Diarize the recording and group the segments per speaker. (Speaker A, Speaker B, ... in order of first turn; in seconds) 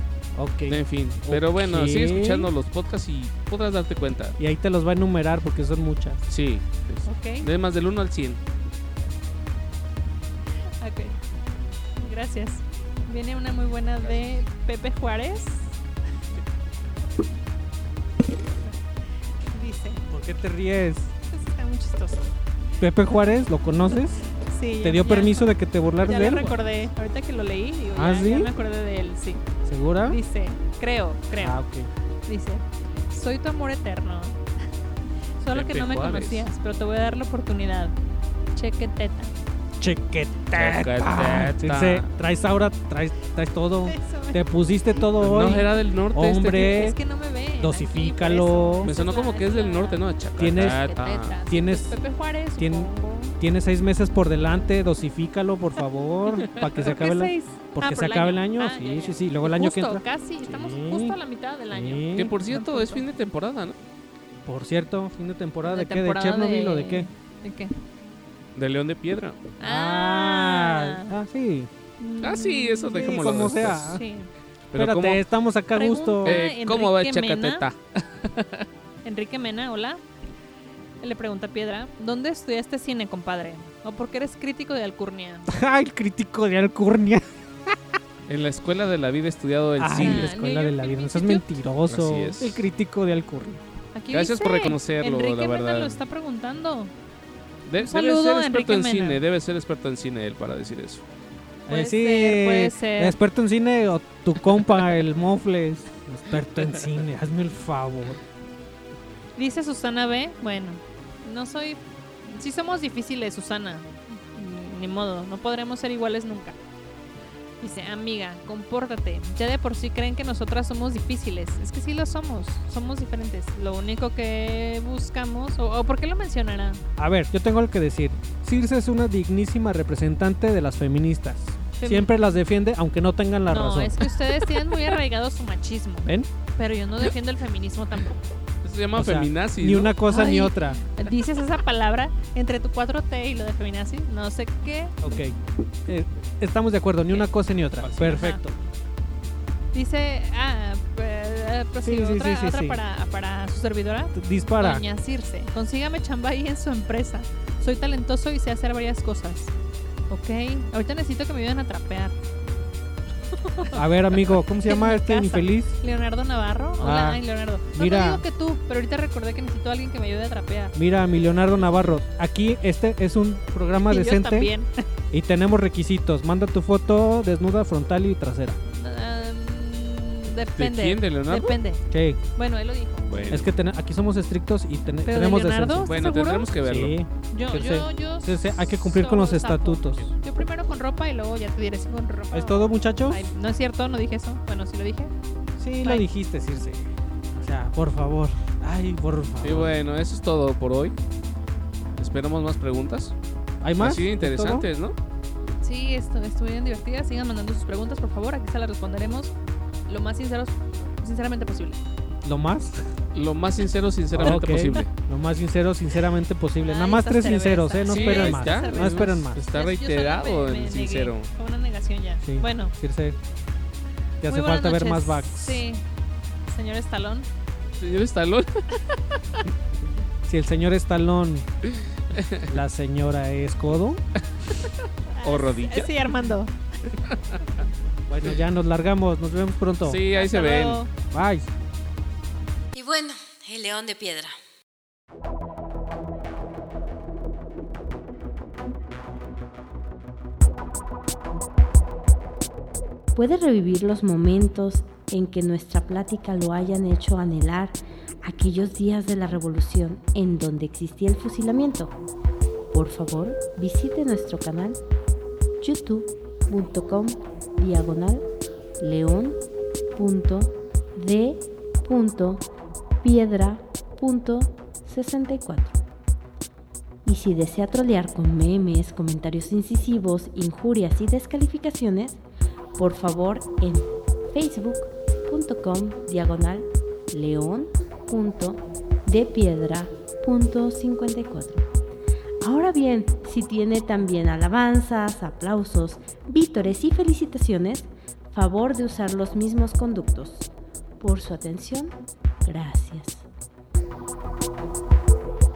Speaker A: 0.3-2.5, 4.4-6.2, 20.1-21.1, 22.8-24.2, 24.8-26.5, 27.9-28.5, 29.6-30.2, 31.4-31.9, 39.8-47.0, 47.6-49.0, 50.4-50.8, 51.5-52.0, 52.6-61.2, 61.7-62.3, 64.5-67.1, 69.6-71.7, 72.9-74.0, 74.7-76.4, 85.5-87.8, 89.8-93.6, 101.7-108.2, 127.0-134.2, 138.9-140.8, 145.0-148.5, 151.8-152.8, 154.1-154.8, 163.7-165.7, 166.8-167.2, 167.7-168.2, 170.8-174.5, 175.1-178.6, 181.9-182.2, 183.3-185.9, 186.6-190.0, 192.3-193.2, 195.6-199.8, 203.6-204.7, 212.2-212.9, 214.1-219.4, 222.2-223.2, 224.2-225.6, 230.3-231.4, 232.5-234.0, 238.1-240.0, 241.1-241.5
Speaker B: 0.7-4.3, 6.3-8.4, 26.2-26.6, 35.5-36.5, 40.5-42.1, 45.2-46.7, 48.8-51.4, 62.1-63.8, 68.5-69.5, 72.2-74.0, 74.7-75.2, 76.2-78.7, 88.3-90.3, 91.9-92.7, 94.1-96.0, 97.7-101.0, 138.6-140.0, 180.6-181.6, 183.1-183.5, 185.8-187.0, 199.4-201.0, 202.0-203.1, 203.8-204.9, 213.1-214.9, 217.8-221.3, 227.8-228.6, 232.1-232.5, 235.2-235.9, 237.0-237.3, 239.8-240.8
Speaker C: 7.0-7.5, 10.8-11.2, 12.0-15.8, 19.5-20.0, 21.3-22.3, 24.4-29.4, 30.0-31.6, 32.2-34.4, 35.4-37.9, 38.5-39.3, 43.9-44.4, 46.5-53.4, 56.8-63.0, 65.6-67.7, 69.6-71.1, 72.0-74.3, 75.7-77.7, 79.0-80.0, 81.0-85.4, 90.0-91.5, 93.9-96.9, 97.8-99.2, 101.7-103.2, 109.3-116.6, 117.6-126.8, 131.8-132.2, 133.5-138.2, 140.1-144.9, 148.0-148.4, 149.7-159.5, 160.1-162.1, 163.4-170.7, 173.8-174.7, 178.7-181.8, 182.3-183.1, 185.0-186.5, 187.3-195.1, 205.6-209.3, 209.9-211.8, 216.6-222.7, 224.2-225.8, 226.5-227.3, 235.1-236.5, 240.2-240.9
Speaker D: 242.7-244.3, 253.1-261.9, 262.7-264.8, 265.6-268.2, 268.8-269.4, 269.9-272.4, 273.0-275.8, 277.0-282.2, 282.8-291.6, 292.4-300.5, 301.0-301.9, 302.4-303.2